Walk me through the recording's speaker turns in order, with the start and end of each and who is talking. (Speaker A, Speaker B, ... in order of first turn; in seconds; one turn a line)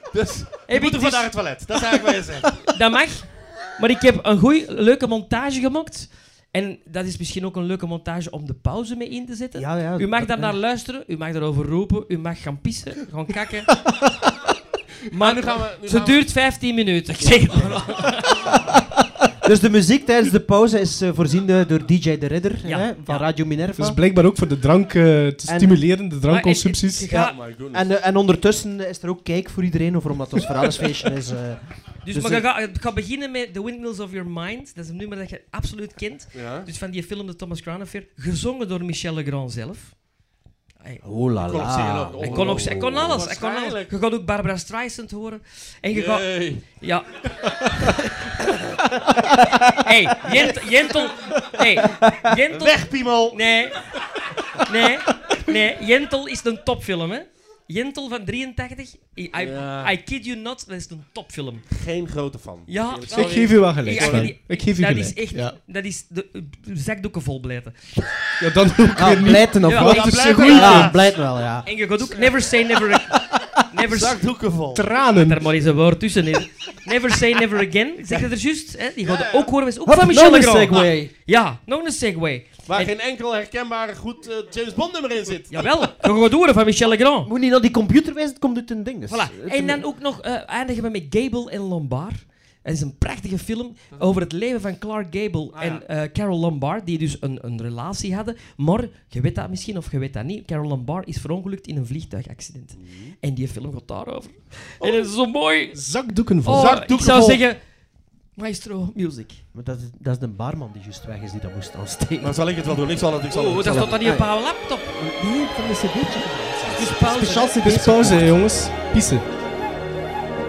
Speaker A: 0.1-2.6
Speaker B: 0.7-1.3
Speaker B: 2.7-13.7
Speaker C: 9.6-10.6
Speaker D: 13.9-14.2
Speaker B: 15.1-18.5
Speaker A: 15.2-16.3
Speaker A: 17.6-17.8
Speaker C: 19.4-24.0
Speaker B: 22.6-23.3
Speaker D: 23.8-27.1
Speaker C: 25.5-25.8
Speaker B: 26.3-27.4
Speaker C: 27.1-32.5
Speaker A: 27.1-27.9
Speaker B: 32.0-40.0
Speaker A: 36.3-36.7
Speaker C: 41.0-42.8
Speaker A: 41.5-43.9
Speaker B: 42.2-47.1
Speaker A: 45.9-46.6
Speaker B: 49.7-53.9
Speaker A: 50.3-51.4
Speaker A: 52.5-54.0
Speaker B: 54.6-61.7
Speaker A: 59.4-59.9
Speaker A: 61.7-64.3
Speaker B: 62.7-67.9
Speaker D: 63.1-65.6
Speaker D: 68.4-71.0
Speaker C: 69.0-71.7
Speaker B: 69.7-71.0
Speaker A: 69.8-71.0
Speaker B: 71.6-74.2
Speaker A: 73.9-74.9
Speaker D: 74.7-75.5
Speaker B: 75.2-82.9
Speaker A: 79.0-79.5
Speaker C: 79.8-81.1
Speaker A: 82.7-85.9
Speaker B: 85.5-87.3
Speaker C: 87.3-89.8
Speaker B: 89.1-105.8
Speaker A: 95.5-95.8
Speaker A: 102.8-103.2
Speaker A: 104.8-105.1
Speaker D: 105.7-107.1
Speaker B: 106.4-107.6
Speaker A: 106.5-107.4
Speaker B: 108.4-109.4
Speaker C: 109.5-112.5
Speaker A: 112.2-113.8
Speaker B: 113.3-114.9
Speaker C: 113.5-114.4
Speaker C: 114.9-118.4
Speaker B: 116.7-118.3
Speaker D: 117.2-119.2